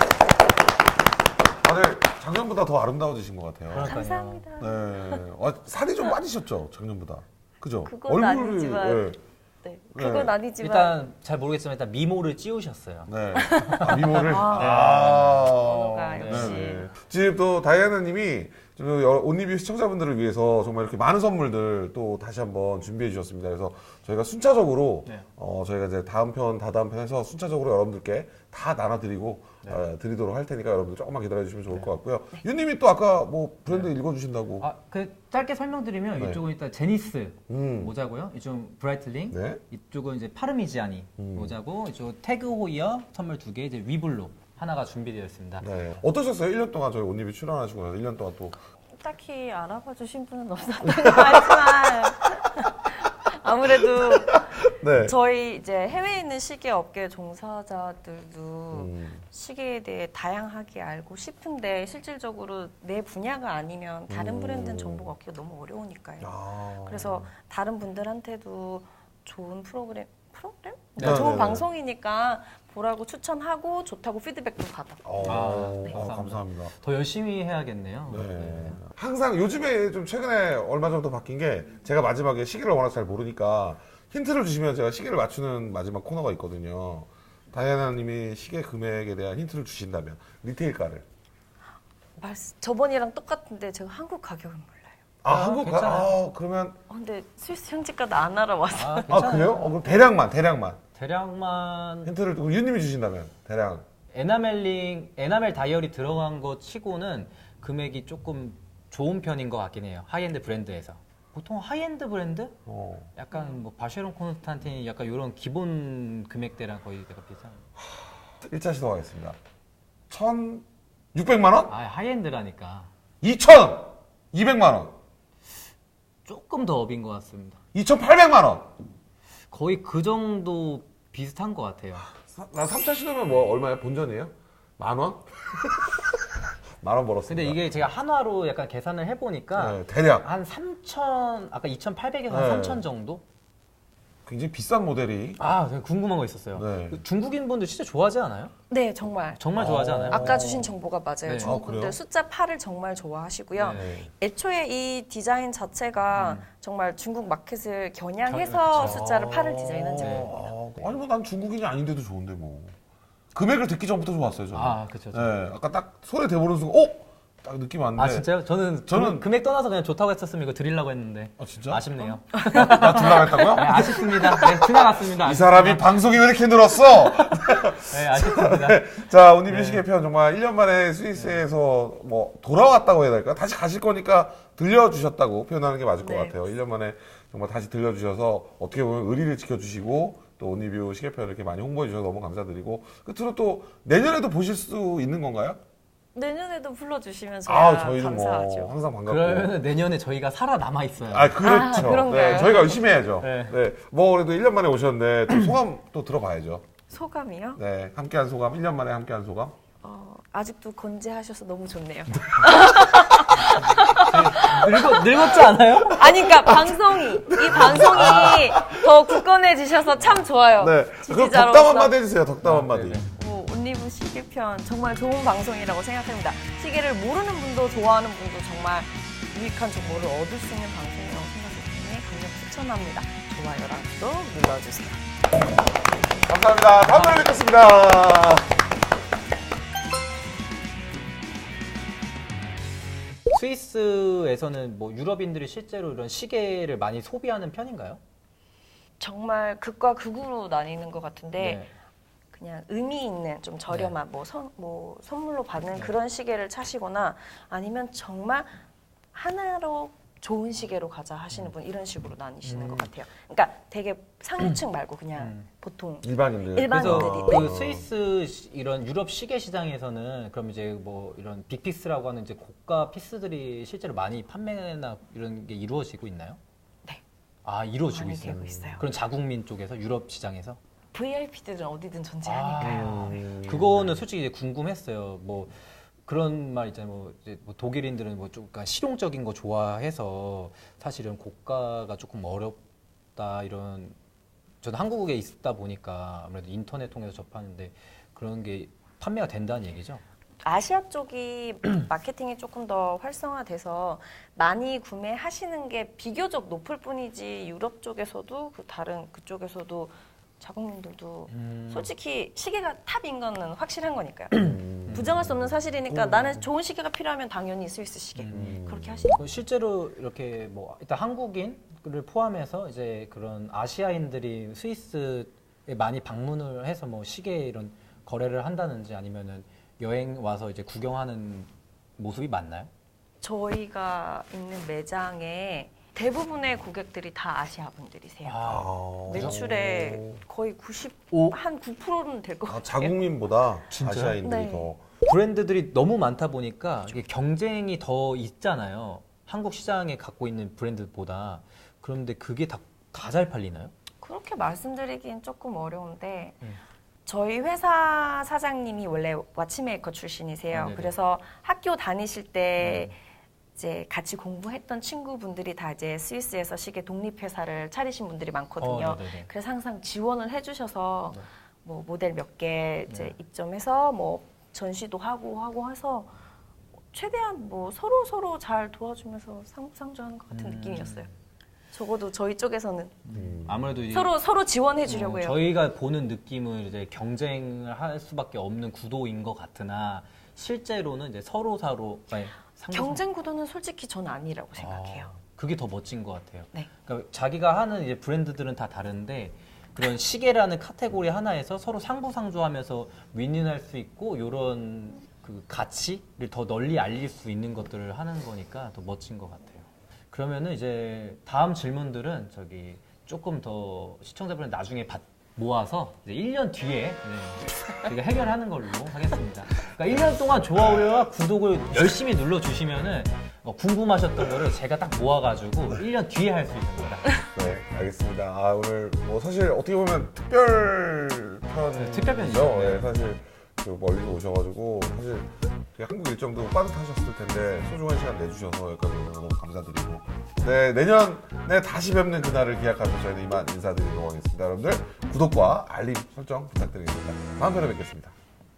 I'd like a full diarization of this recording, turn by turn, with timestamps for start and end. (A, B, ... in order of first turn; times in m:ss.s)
0:01.6-0:04.0 A
0:03.7-0:04.4 B
0:03.8-0:05.2 C
0:04.6-0:09.2 A
0:07.8-0:11.0 C
0:09.9-0:10.3 A
0:10.6-0:15.5 B
0:13.0-0:34.7 A
0:13.4-0:14.8 C
0:15.5-0:16.9 C
0:16.1-0:16.8 B
0:34.6-0:45.7 B
0:36.2-0:36.4 A
0:37.5-0:37.9 A
0:39.3-0:39.6 A
0:41.2-0:41.5 A
0:45.6-0:48.6 A
0:49.0-1:16.0 C
0:50.8-0:52.1 A
0:53.9-0:55.1 A
0:58.7-0:59.2 A
1:04.1-1:05.1 A
1:06.2-1:07.3 A
1:11.0-1:11.6 B
1:11.0-1:11.6 A
1:15.0-1:16.7 A
1:15.2-1:18.8 B
1:18.1-1:31.0 A
1:32.2-1:35.0 C
1:35.2-1:36.8 A
1:35.3-1:36.1 B
1:36.9-1:39.2 C
1:38.7-1:40.0 B
1:39.1-1:40.8 A
1:40.9-1:42.1 B
1:42.0-1:43.8 A
1:44.1-1:52.5 B
1:52.6-1:53.1 A
1:53.1-1:57.6 B
1:57.8-1:59.4 A
2:00.1-2:01.7 A
2:01.7-2:02.9 B
2:03.2-2:04.9 A
2:06.2-2:07.6 B
2:07.7-2:08.7 A
2:09.5-2:12.1 B
2:12.2-2:15.9 A
2:16.8-2:17.7 A
2:17.3-2:23.2 B
2:19.5-2:20.3 A
2:22.3-2:22.8 A
2:24.2-2:25.4 A
2:25.4-2:28.5 B
2:26.5-2:27.0 A
2:28.7-2:40.4 C
2:29.4-2:30.7 B
2:29.6-2:30.4 A
2:31.2-2:31.6 B
2:31.4-2:32.0 A
2:33.6-2:34.0 B
2:33.7-2:34.1 A
2:36.1-2:36.4 B
2:38.2-2:39.1 B
2:38.7-2:42.7 A
2:40.0-2:40.4 B
2:43.3-2:48.3 A
2:44.5-2:45.3 B
2:47.9-2:56.1 B
2:48.8-2:49.2 A
2:51.4-2:51.8 A
2:52.4-3:15.6 A
2:56.8-2:59.8 B
3:01.1-3:01.4 B
3:06.0-3:06.5 C
3:16.1-3:18.8 C
3:17.4-3:19.6 A
3:19.0-3:21.4 B
3:21.1-3:26.6 A
3:21.4-3:23.0 C
3:22.1-3:22.5 B
3:23.2-3:23.6 B
3:26.9-3:27.6 C
3:27.6-3:29.5 A
3:29.8-3:42.0 C
3:33.4-3:36.5 B
3:36.4-3:39.1 A
3:37.5-3:38.4 B
3:39.9-3:40.3 B
3:40.6-3:43.0 A
3:42.4-3:43.0 B
3:43.1-3:55.0 C
3:56.2-3:58.5 A
3:56.8-3:57.4 B
4:03.3-4:08.0 B
4:09.0-4:11.6 C
4:11.4-4:11.7 B
4:12.3-4:18.6 C
4:13.7-4:13.9 B
4:19.1-4:27.5 C
4:22.4-4:22.9 B
4:25.2-4:25.5 B
4:26.0-4:27.8 A
4:26.7-4:36.4 B
4:37.4-4:40.6 B
4:37.9-4:38.8 C
4:38.3-4:38.8 A
4:40.9-4:43.0 C
4:42.2-4:52.6 B
4:42.6-4:44.0 A
4:53.2-4:54.0 B
4:54.6-5:00.0 B
5:00.4-5:19.3 C
5:11.3-5:11.9 B
5:14.3-5:15.3 B
5:14.3-5:15.5 A
5:15.9-5:16.4 B
5:18.2-5:18.6 B
5:18.3-5:19.1 A
5:19.2-5:32.7 B
5:33.2-5:38.5 C
5:38.2-5:39.4 B
5:38.4-5:40.2 A
5:39.0-5:43.0 C
5:41.1-5:41.4 B
5:42.4-5:44.8 A
5:43.7-5:44.2 B
5:44.2-5:44.7 C
5:45.0-5:53.7 B
5:54.0-5:56.4 C
5:57.0-6:02.9 C
6:00.5-6:00.9 B
6:02.6-6:02.9 B
6:03.6-6:16.1 C
6:08.6-6:09.3 B
6:12.9-6:13.1 B
6:16.9-6:21.1 C
6:20.3-6:21.1 B
6:21.7-6:23.1 C
6:23.0-6:24.1 B
6:23.1-6:23.8 A
6:23.9-6:25.4 C
6:24.8-6:33.0 B
6:32.7-6:35.1 C
6:34.6-7:07.3 B
7:07.2-7:28.1 A
7:11.7-7:12.9 B